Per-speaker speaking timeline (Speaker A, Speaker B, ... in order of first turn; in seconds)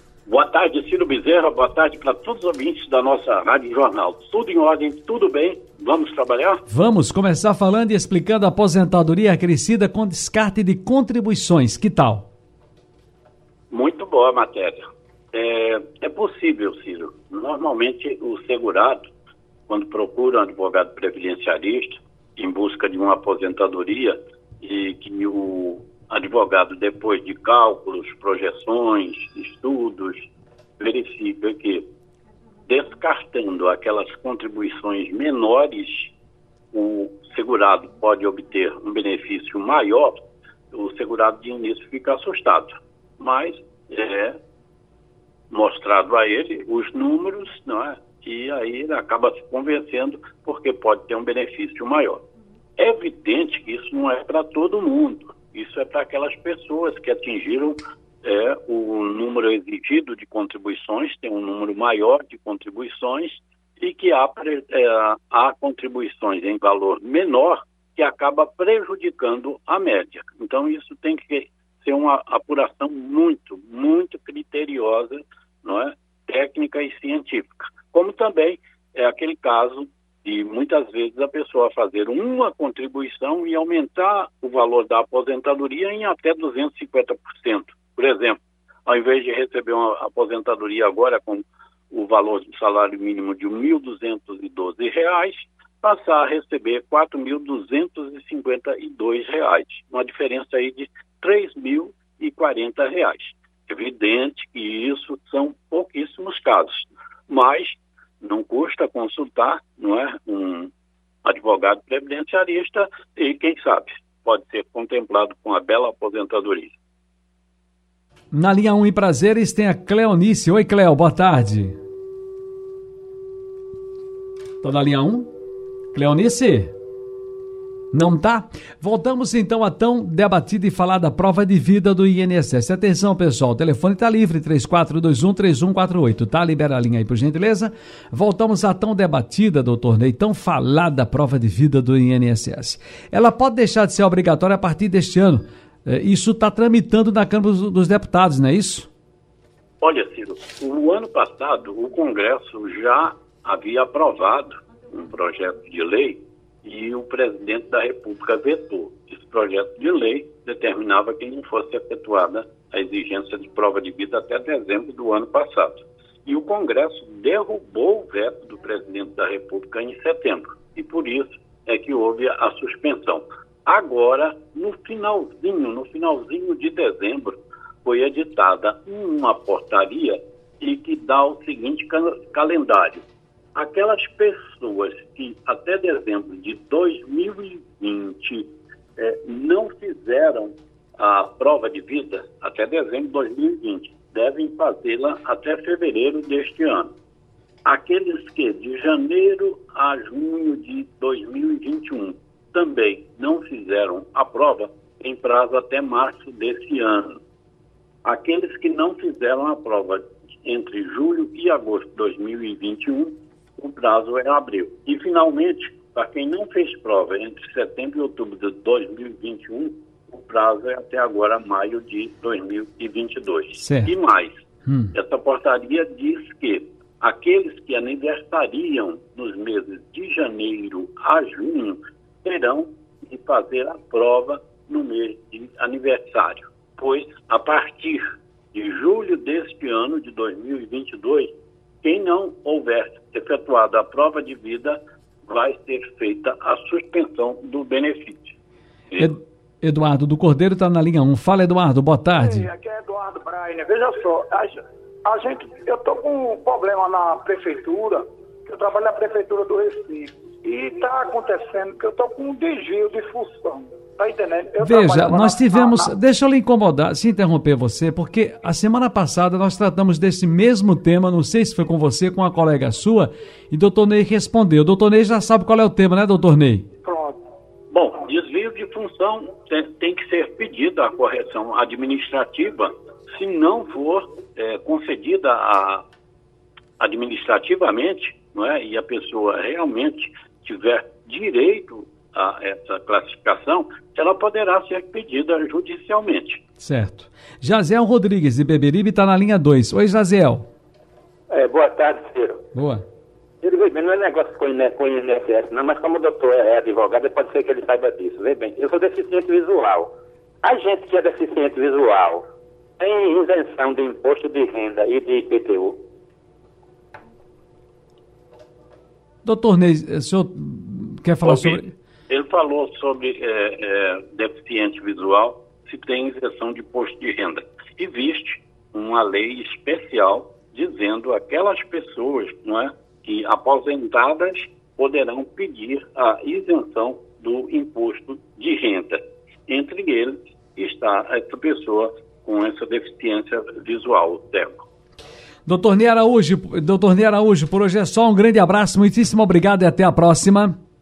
Speaker A: 0.3-6.6, 13.7-19.1, 19.7-31.9, 32.7-36.1, 36.7-44.4, 45.5-52.2, 52.8-110.7, 111.2-116.8, 149.8-196.9, 197.7-207.2, 208.1-248.3, 277.7-285.9, 286.8-296.4, 321.2-344.6
Speaker B: 6.7-12.3, 118.3-121.8, 124.6-125.3, 125.9-126.7, 127.9-148.9, 223.6-223.9, 224.7-224.9, 249.0-252.5, 264.6-276.6, 296.6-300.4, 302.6-302.8, 319.2-321.7, 345.5-350.6
Speaker C: 252.1-265.9, 276.8-277.2
Speaker D: 301.3-302.4, 303.4-309.9, 310.4-312.2, 312.8-315.8